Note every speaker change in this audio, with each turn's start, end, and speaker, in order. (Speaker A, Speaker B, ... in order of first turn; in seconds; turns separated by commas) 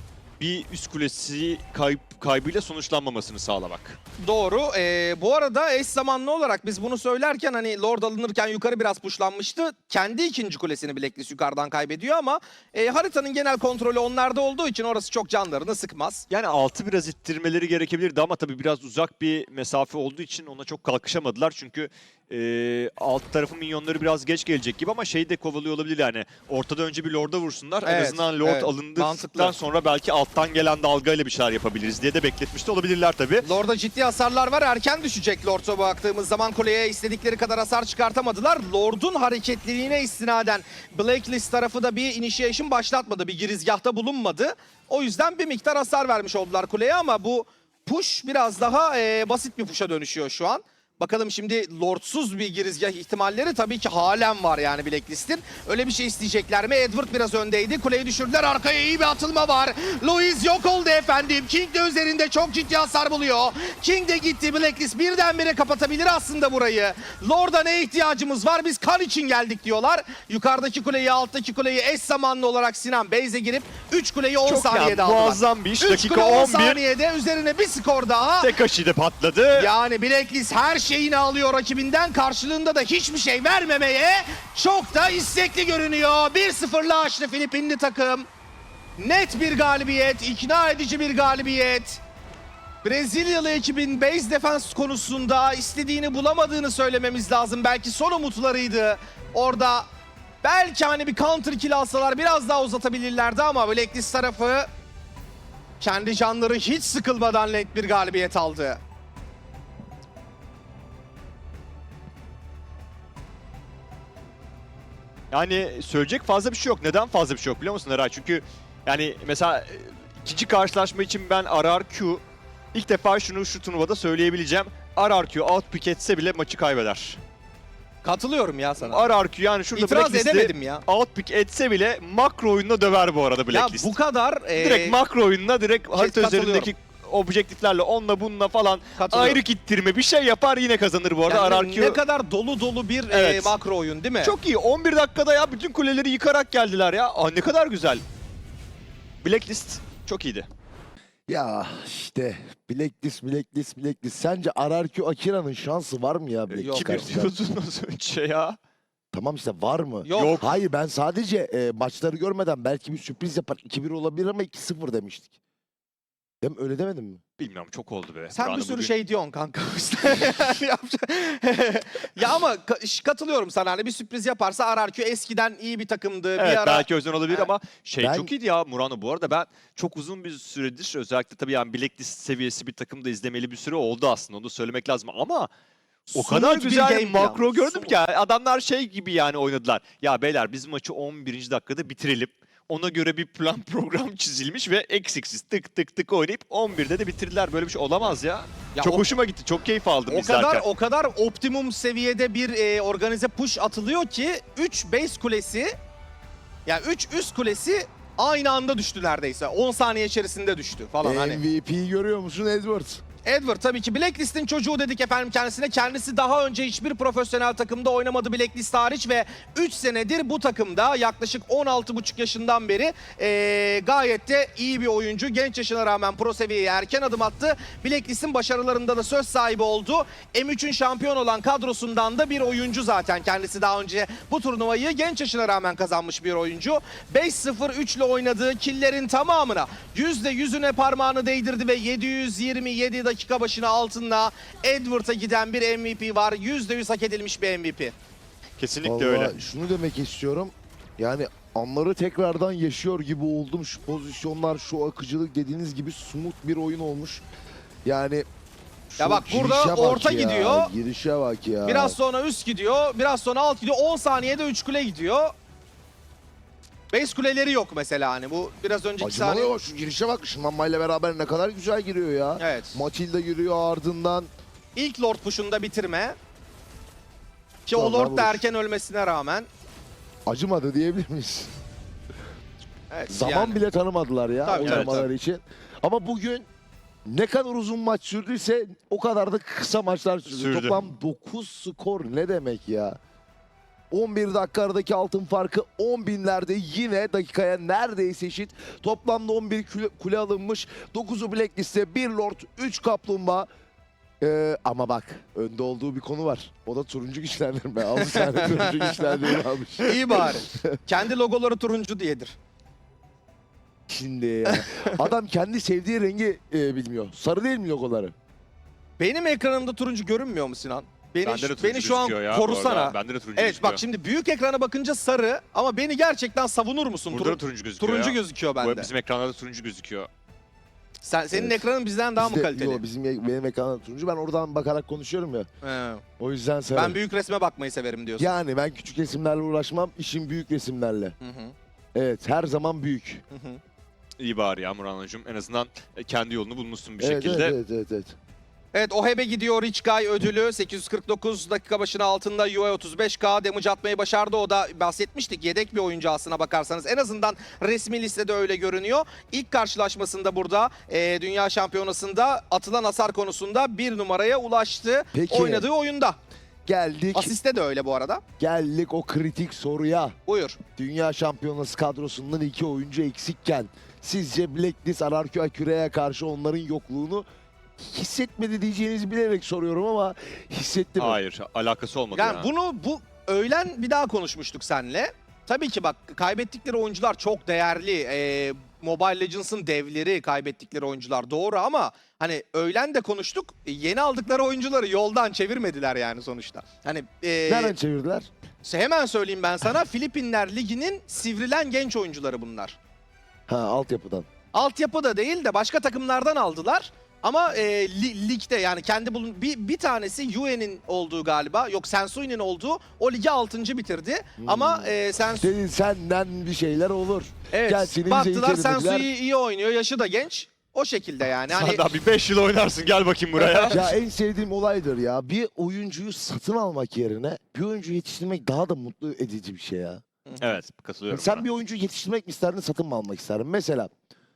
Speaker A: 0.4-4.0, Speaker B: 4.2-16.2, Speaker A: 16.3-33.5, Speaker B: 27.8-29.6, Speaker B: 33.4-78.5, Speaker A: 74.4-76.8, Speaker A: 78.4-79.7, Speaker B: 79.5-88.3, Speaker B: 89.0-92.0, Speaker B: 92.8-99.9, Speaker B: 100.4-104.7, Speaker B: 105.8-108.8, Speaker A: 115.3-122.2, Speaker A: 122.7-127.2, Speaker B: 128.0-129.1, Speaker A: 128.8-133.9, Speaker B: 129.7-130.8, Speaker B: 133.5-135.0, Speaker A: 134.6-142.0, Speaker B: 136.0-136.7, Speaker B: 139.0-139.4, Speaker B: 141.3-144.3, Speaker A: 143.1-143.5, Speaker A: 144.2-148.0, Speaker A: 149.2-150.5, Speaker C: 151.3-157.3, Speaker A: 156.5-158.6, Speaker B: 156.6-157.0, Speaker C: 159.1-165.3, Speaker B: 160.0-160.4, Speaker A: 160.1-160.5, Speaker C: 166.4-167.2, Speaker A: 167.4-168.9, Speaker B: 168.3-177.5, Speaker A: 176.4-185.5, Speaker C: 178.0-178.3, Speaker B: 186.1-187.9, Speaker A: 186.1-200.6, Speaker B: 198.8-199.1, Speaker B: 200.1-205.8, Speaker B: 206.7-211.4, Speaker C: 211.0-213.0, Speaker B: 213.2-247.9, Speaker A: 248.6-249.3, Speaker C: 248.8-257.2, Speaker C: 257.8-258.2, Speaker C: 258.9-262.0, Speaker B: 259.0-260.7, Speaker B: 261.6-265.3, Speaker B: 266.9-269.6, Speaker C: 269.0-274.3, Speaker B: 272.4-272.8, Speaker B: 274.8-276.1, Speaker B: 277.7-279.5, Speaker C: 277.7-278.4, Speaker C: 280.2-281.5, Speaker B: 282.9-283.6, Speaker C: 283.1-286.5, Speaker B: 284.4-285.1, Speaker A: 284.6-284.9, Speaker C: 287.0-293.0, Speaker A: 290.3-290.8, Speaker C: 293.9-303.5, Speaker C: 304.2-310.8, Speaker B: 308.0-309.3, Speaker B: 309.8-312.4, Speaker C: 313.9-318.1, Speaker B: 314.5-315.0, Speaker B: 319.0-328.9, Speaker A: 321.2-323.8, Speaker A: 327.1-330.1, Speaker B: 331.0-332.8, Speaker C: 331.3-331.6, Speaker C: 332.2-335.5, Speaker B: 335.6-336.0, Speaker C: 336.2-337.0, Speaker B: 336.7-338.3, Speaker C: 338.2-341.1, Speaker B: 341.2-341.5, Speaker C: 341.9-343.2, Speaker B: 343.3-343.6, Speaker A: 344.2-347.6, Speaker C: 347.0-348.1, Speaker B: 348.7-366.2, Speaker C: 365.1-365.7, Speaker C: 366.6-367.3, Speaker B: 367.1-368.2, Speaker C: 368.4-370.1, Speaker B: 370.3-370.6, Speaker C: 370.8-377.2, Speaker C: 377.8-381.2, Speaker A: 381.0-382.5, Speaker B: 382.1-397.7, Speaker C: 397.4-398.3, Speaker B: 398.6-402.8, Speaker C: 403.5-404.3, Speaker B: 404.5-415.5, Speaker C: 414.4-419.1, Speaker B: 417.5-421.8, Speaker A: 421.5-423.8, Speaker B: 423.4-423.8, Speaker C: 423.7-430.0, Speaker B: 430.3-430.6, Speaker A: 430.4-431.4, Speaker C: 431.1-433.9